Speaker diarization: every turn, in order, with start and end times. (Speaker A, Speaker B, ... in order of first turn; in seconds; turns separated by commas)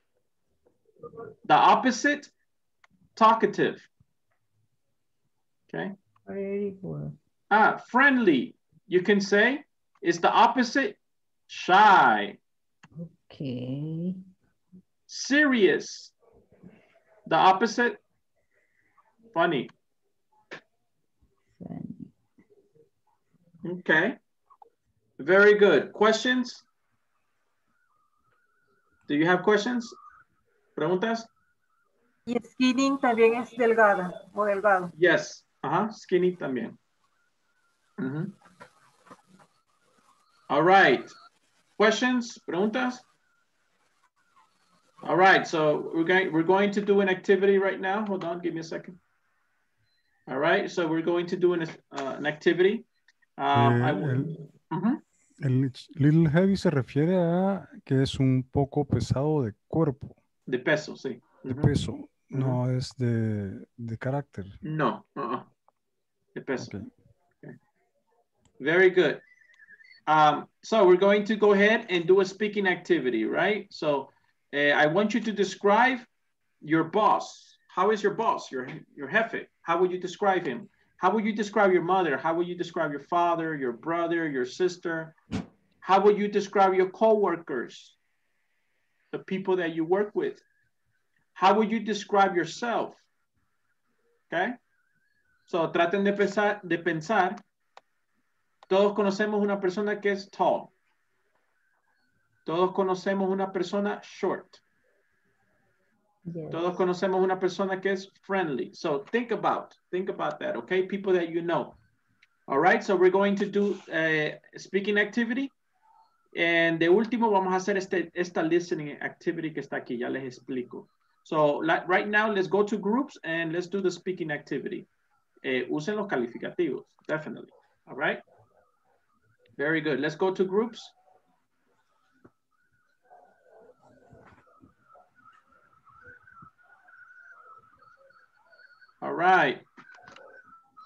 Speaker A: 1.4-2.3, Speaker A: 3.1-3.9, Speaker B: 6.3-7.1, Speaker A: 7.5-11.0, Speaker A: 11.5-12.4, Speaker B: 13.0-14.2, Speaker A: 15.1-16.1, Speaker A: 17.3-18.0, Speaker A: 19.3-19.7, Speaker B: 21.6-22.1, Speaker A: 23.6-24.2, Speaker A: 25.2-26.6, Speaker A: 29.1-30.0, Speaker A: 30.8-31.3, Speaker C: 32.3-34.9, Speaker A: 34.9-36.8, Speaker A: 38.0-38.3, Speaker A: 40.5-41.1, Speaker A: 41.8-43.0, Speaker A: 45.0-49.0, Speaker A: 50.3-52.9, Speaker A: 53.4-55.0, Speaker D: 53.5-54.3, Speaker D: 55.4-60.2, Speaker A: 60.5-61.8, Speaker D: 61.5-64.6, Speaker A: 62.3-62.6, Speaker A: 64.6-65.5, Speaker A: 66.3-66.7, Speaker D: 66.6-66.9, Speaker A: 68.6-69.2, Speaker A: 70.1-76.1, Speaker A: 76.6-85.1, Speaker A: 85.8-88.0, Speaker A: 89.1-90.4, Speaker A: 91.3-93.0, Speaker A: 94.3-94.6, Speaker A: 95.5-97.4, Speaker A: 98.7-100.7, Speaker A: 102.5-104.6, Speaker B: 106.3-106.7, Speaker A: 106.5-111.8, Speaker A: 112.5-115.5, Speaker A: 116.3-124.9, Speaker A: 125.4-128.2, Speaker A: 129.6-130.9, Speaker A: 139.0-139.6